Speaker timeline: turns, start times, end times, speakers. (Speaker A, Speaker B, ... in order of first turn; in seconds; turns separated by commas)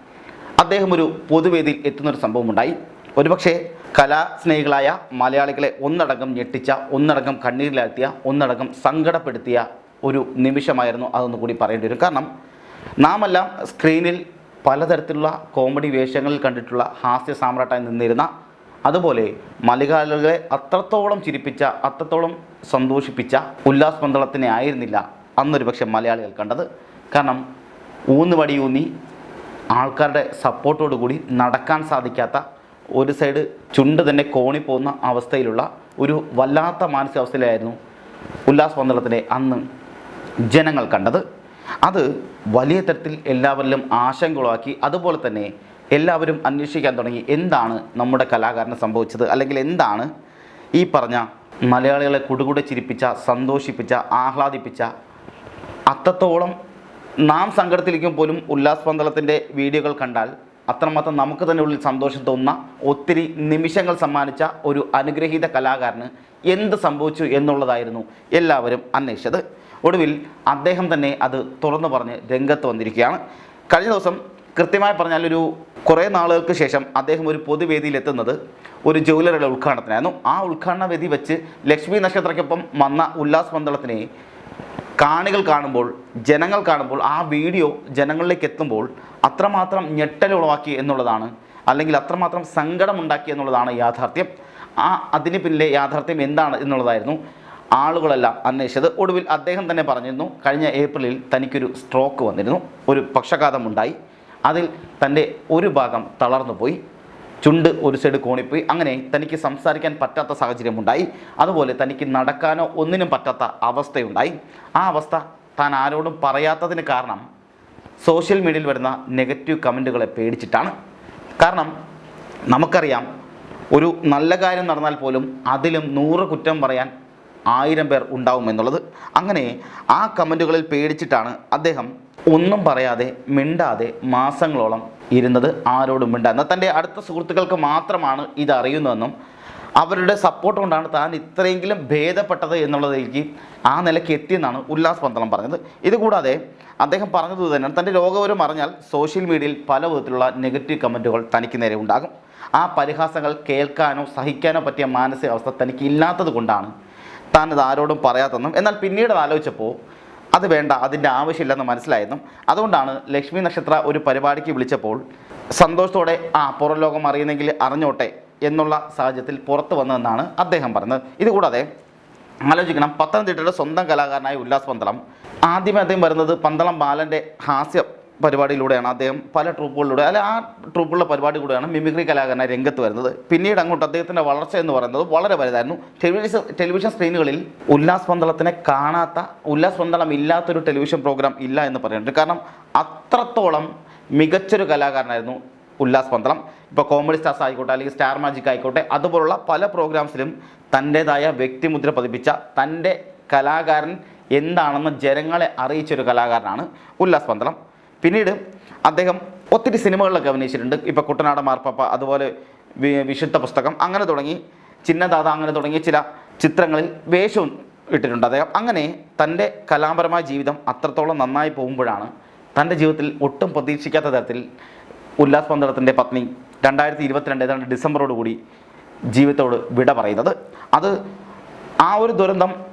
Speaker A: 0.6-12.3, Speaker A: 13.0-18.3, Speaker A: 18.9-27.4, Speaker A: 28.1-28.9, Speaker A: 29.7-32.4, Speaker A: 33.0-37.8, Speaker A: 38.5-39.6, Speaker A: 40.5-41.2, Speaker A: 41.8-50.1, Speaker A: 50.8-54.9, Speaker A: 55.9-56.5, Speaker A: 57.3-84.0, Speaker A: 85.0-97.2, Speaker A: 97.8-103.9, Speaker A: 104.5-106.8, Speaker A: 107.4-117.2, Speaker A: 118.0-120.7, Speaker A: 121.4-121.7, Speaker A: 122.5-123.1, Speaker A: 123.7-126.9, Speaker A: 127.5-139.1, Speaker A: 139.8-156.7, Speaker A: 157.3-159.8, Speaker A: 160.3-165.0, Speaker A: 165.6-171.7, Speaker A: 172.5-224.4, Speaker A: 225.2-228.4, Speaker A: 229.1-230.9, Speaker A: 231.8-232.6